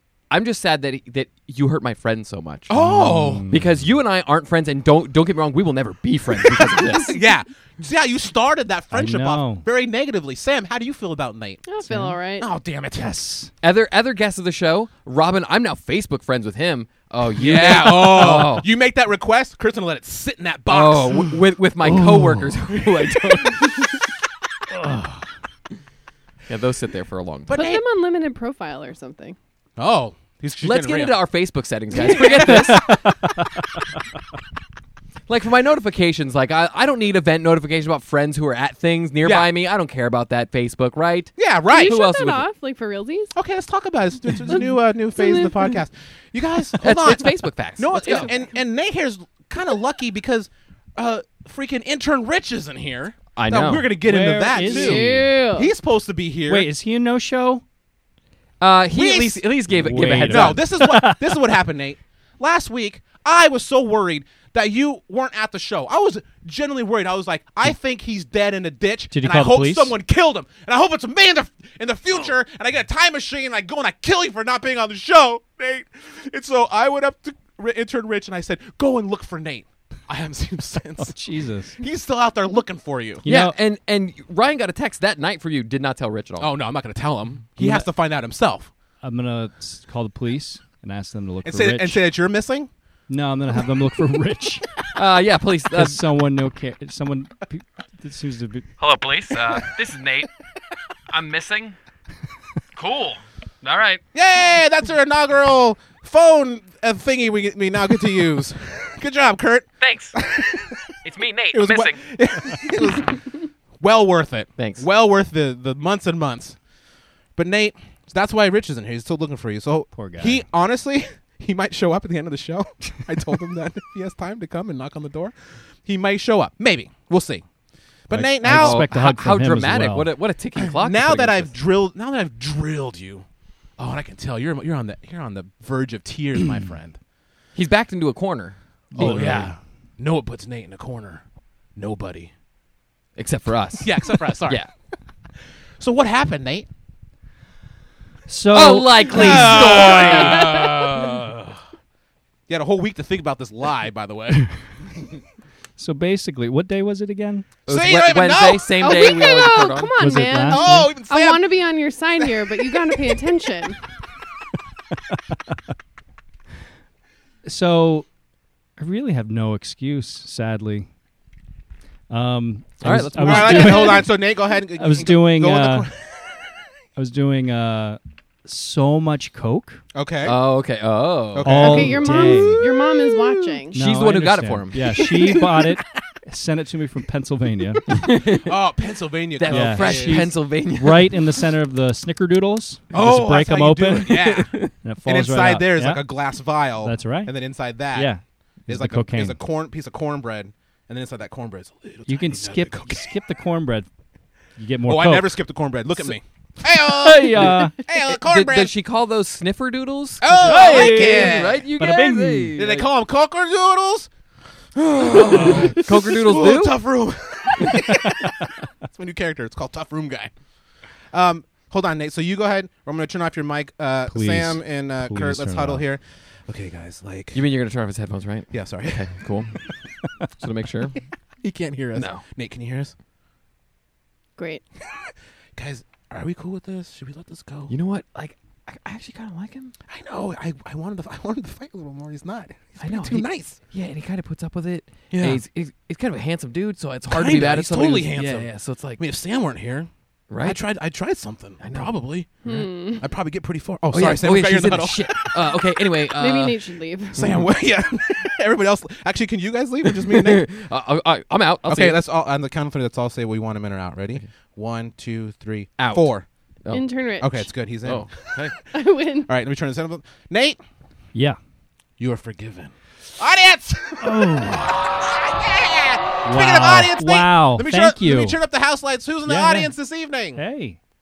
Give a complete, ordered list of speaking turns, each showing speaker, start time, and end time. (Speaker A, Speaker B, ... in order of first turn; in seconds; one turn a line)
Speaker A: 0.3-2.7
Speaker B: 2.7-3.5
Speaker C: 2.7-3.6
Speaker A: 3.5-7.2
Speaker B: 6.4-11.6
Speaker C: 8.9-9.7
Speaker D: 11.7-12.5
Speaker C: 11.8-12.2
Speaker B: 12.4-13.1
Speaker C: 12.9-13.5
Speaker A: 13.6-18.7
Speaker B: 17.4-21.4
Speaker A: 20.7-24.0
Speaker C: 21.8-22.5
Speaker C: 24.7-25.3
Speaker A: 26.5-27.5
Speaker B: 27.5-27.8
Speaker D: 27.5-29.4
Speaker B: 29.8-31.2
Speaker A: 30.6-33.0
Speaker B: 31.9-32.8
Speaker D: 32.0-32.6
Speaker C: 32.4-33.9
Speaker A: 35.3-42.5
Speaker B: 39.2-39.5
Speaker B: 41.4-42.0
Speaker D: 41.7-43.3
Speaker B: 43.4-56.7
Speaker D: 44.5-45.8
Speaker A: 46.8-48.3
Speaker A: 53.4-53.9
Speaker C: 54.0-55.3
Speaker D: 54.6-55.7
Speaker C: 56.5-57.6
Speaker A: 58.6-60.6
Speaker B: 58.9-59.4
Speaker C: 59.7-61.3
Speaker B: 60.0-81.2
Speaker C: 69.1-70.0
Speaker C: 81.0-81.8
Speaker B: 81.8-83.2
Speaker C: 83.2-83.5
Speaker A: 83.3-86.5
Speaker B: 86.4-88.7
Speaker C: 89.0-92.0
Speaker B: 91.5-92.7
Speaker C: 93.1-94.7
Speaker A: 95.0-96.0
Speaker C: 95.7-98.7
Speaker A: 98.8-100.3
Speaker A: 101.1-101.8
Speaker A: 102.8-104.0
Speaker B: 104.1-110.8
Speaker A: 109.8-110.2
Speaker A: 111.0-112.0
Speaker B: 111.5-116.6
Speaker A: 114.6-114.8
Speaker B: 117.4-127.4
Speaker C: 119.9-120.4
Speaker B: 128.1-128.9
Speaker C: 128.1-130.1
Speaker A: 128.4-131.5
Speaker B: 130.6-133.3
Speaker B: 133.8-137.0
Speaker A: 137.6-139.5
Speaker C: 138.9-139.6
Speaker B: 138.9-141.2
Speaker B: 141.8-142.3
Speaker A: 143.2-144.7
Speaker B: 143.8-144.6
Speaker B: 145.8-146.7
Speaker C: 148.3-149.7
Speaker A: 148.5-150.8
Speaker B: 149.1-151.6
Speaker D: 149.7-150.9
Speaker B: 152.5-154.5
Speaker C: 155.8-157.5
Speaker B: 157.7-159.6
Speaker A: 157.7-159.9
Speaker D: 158.8-163.8
Speaker C: 160.0-160.9
Speaker B: 160.4-161.6
Speaker B: 162.2-163.2
Speaker C: 167.4-168.1
Speaker C: 168.8-170.9
Speaker C: 172.1-174.1
Speaker A: 172.8-174.0
Speaker B: 173.2-176.1
Speaker C: 174.8-175.9
Speaker C: 177.0-179.8
Speaker B: 179.9-180.4
Speaker A: 180.2-181.8
Speaker B: 181.3-183.6
Speaker C: 181.4-182.6
Speaker D: 181.6-183.7
Speaker A: 183.7-185.1
Speaker C: 183.7-187.9
Speaker A: 187.9-188.6
Speaker B: 188.4-190.3
Speaker A: 189.4-191.2
Speaker C: 189.5-196.1
Speaker B: 192.9-198.1
Speaker A: 194.1-194.7
Speaker C: 196.8-197.3
Speaker C: 197.9-199.4
Speaker B: 198.7-203.1
Speaker C: 202.1-203.9
Speaker C: 204.6-205.4
Speaker B: 204.9-208.7
Speaker C: 206.8-207.8
Speaker A: 207.0-212.9
Speaker B: 210.2-211.7
Speaker C: 210.4-212.6
Speaker B: 212.6-214.1
Speaker B: 214.8-220.3
Speaker A: 215.0-216.8
Speaker B: 221.1-227.4
Speaker C: 224.1-225.8
Speaker A: 227.3-229.5
Speaker B: 228.5-229.1
Speaker A: 230.4-231.0
Speaker B: 231.4-232.9
Speaker A: 232.0-232.2
Speaker D: 234.4-234.6
Speaker B: 235.1-237.7
Speaker A: 237.7-239.7
Speaker B: 239.9-243.6
Speaker A: 242.8-249.0
Speaker B: 245.1-245.4
Speaker B: 247.1-249.9
Speaker A: 250.3-250.6
Speaker B: 250.4-255.6
Speaker A: 251.6-251.9
Speaker D: 252.4-253.1
Speaker A: 253.9-256.6
Speaker D: 256.1-257.4
Speaker B: 257.1-260.5
Speaker A: 259.9-262.0
Speaker B: 261.7-266.3
Speaker A: 265.8-266.1
Speaker D: 266.7-267.5
Speaker B: 267.2-268.1
Speaker A: 267.8-268.5
Speaker D: 268.7-269.3
Speaker B: 269.3-270.6
Speaker B: 272.0-280.4
Speaker C: 274.0-274.9
Speaker C: 276.2-278.4
Speaker C: 279.3-279.7
Speaker C: 280.4-280.8